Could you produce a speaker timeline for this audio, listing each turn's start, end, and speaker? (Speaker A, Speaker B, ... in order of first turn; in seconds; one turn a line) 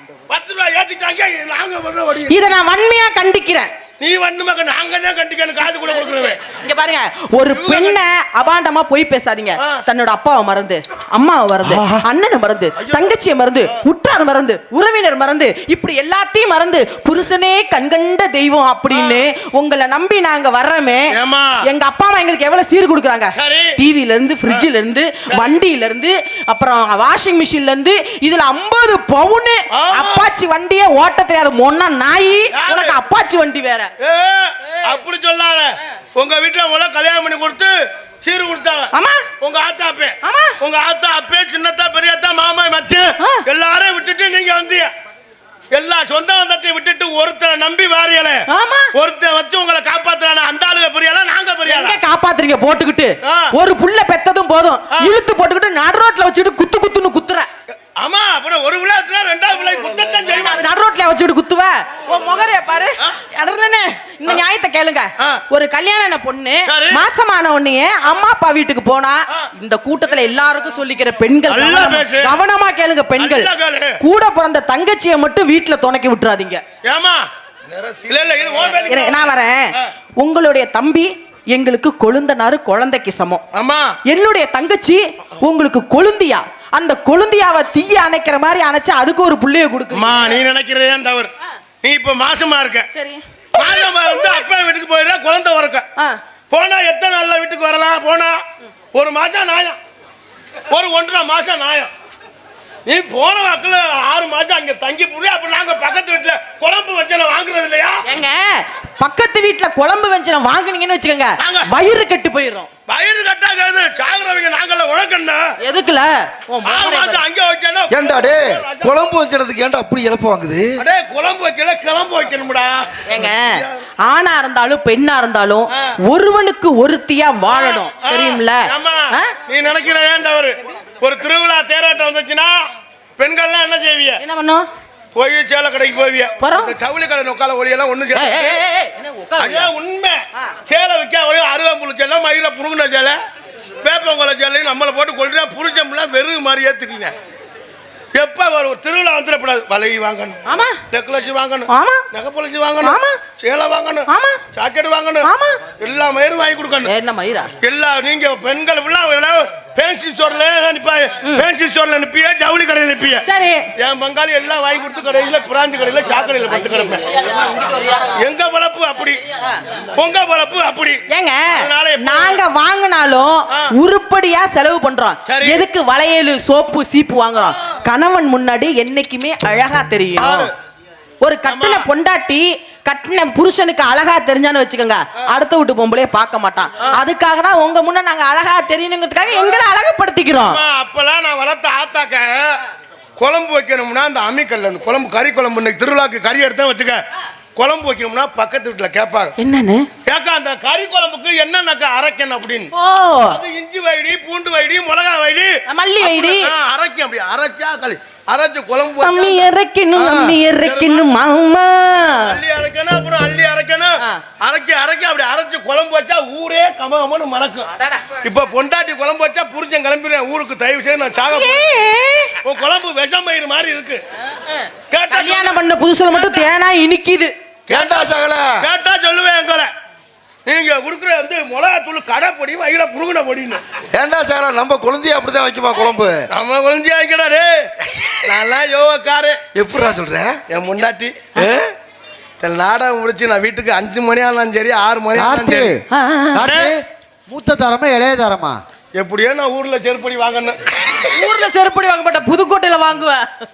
Speaker A: 0.3-2.4
Speaker B: 2.3-3.7
Speaker A: 4.0-6.4
Speaker B: 6.5-21.1
Speaker A: 7.5-8.0
Speaker A: 11.7-12.0
Speaker A: 12.8-13.2
Speaker A: 18.9-19.2
Speaker A: 21.1-21.6
Speaker B: 21.6-33.9
Speaker A: 23.4-23.8
Speaker A: 25.3-25.6
Speaker A: 29.7-30.3
Speaker A: 32.5-33.0
Speaker A: 34.0-44.9
Speaker B: 38.9-39.2
Speaker B: 40.2-40.6
Speaker A: 45.7-48.4
Speaker B: 48.5-48.9
Speaker A: 49.0-52.0
Speaker B: 51.6-57.5
Speaker A: 53.2-53.5
Speaker A: 58.0-60.6
Speaker B: 60.2-76.6
Speaker A: 66.7-67.0
Speaker A: 71.5-72.4
Speaker A: 73.2-73.9
Speaker A: 76.8-77.2
Speaker C: 77.7-78.8
Speaker A: 78.1-79.9
Speaker B: 78.8-83.4
Speaker A: 83.5-83.9
Speaker B: 84.0-90.4
Speaker A: 89.9-91.3
Speaker A: 91.8-92.9
Speaker B: 92.9-94.4
Speaker A: 93.5-95.9
Speaker A: 96.5-98.4
Speaker A: 98.9-99.8
Speaker A: 100.7-101.9
Speaker A: 102.9-108.0
Speaker B: 108.0-112.7
Speaker A: 111.4-111.7
Speaker A: 112.9-115.5
Speaker B: 115.6-117.2
Speaker A: 116.7-119.0
Speaker C: 117.9-120.7
Speaker A: 120.8-123.8
Speaker B: 123.1-129.3
Speaker A: 127.5-132.6
Speaker A: 133.2-134.2
Speaker B: 134.2-134.7
Speaker A: 135.1-138.6
Speaker B: 136.4-136.7
Speaker B: 138.1-139.7
Speaker A: 139.4-143.2
Speaker A: 143.8-147.1
Speaker A: 148.1-155.3
Speaker B: 150.5-150.8
Speaker B: 151.7-152.0
Speaker B: 152.8-153.2
Speaker B: 154.1-154.4
Speaker B: 155.2-155.6
Speaker A: 155.8-156.9
Speaker B: 156.8-157.5
Speaker A: 157.6-163.2
Speaker B: 163.2-163.7
Speaker A: 163.8-167.1
Speaker B: 166.5-168.2
Speaker A: 168.1-169.2
Speaker A: 169.9-171.0
Speaker B: 171.1-180.5
Speaker A: 171.5-172.4
Speaker A: 175.3-175.6
Speaker A: 180.2-180.5
Speaker B: 181.2-190.6
Speaker A: 181.5-181.8
Speaker A: 189.3-189.6
Speaker A: 190.4-192.6
Speaker A: 193.2-197.0
Speaker A: 197.6-199.3
Speaker B: 199.4-199.9
Speaker A: 200.1-202.7
Speaker B: 202.7-203.4
Speaker A: 203.3-211.1
Speaker B: 205.7-206.5
Speaker B: 209.0-212.4
Speaker A: 212.2-217.7
Speaker B: 217.8-218.1
Speaker A: 218.2-221.7
Speaker B: 221.2-222.4
Speaker A: 222.4-224.0
Speaker B: 224.4-227.3
Speaker A: 224.9-225.5
Speaker A: 226.1-226.5
Speaker A: 227.7-229.7
Speaker C: 227.7-228.7
Speaker A: 230.5-233.6
Speaker C: 233.9-236.2
Speaker A: 236.3-237.7
Speaker C: 237.9-238.2
Speaker A: 238.2-239.4
Speaker C: 239.5-240.4
Speaker A: 240.5-241.2
Speaker C: 241.3-241.7
Speaker A: 242.4-245.7
Speaker D: 245.2-245.8
Speaker B: 245.9-246.5
Speaker D: 246.3-248.6
Speaker A: 246.4-246.7
Speaker A: 248.9-250.6
Speaker B: 251.1-253.3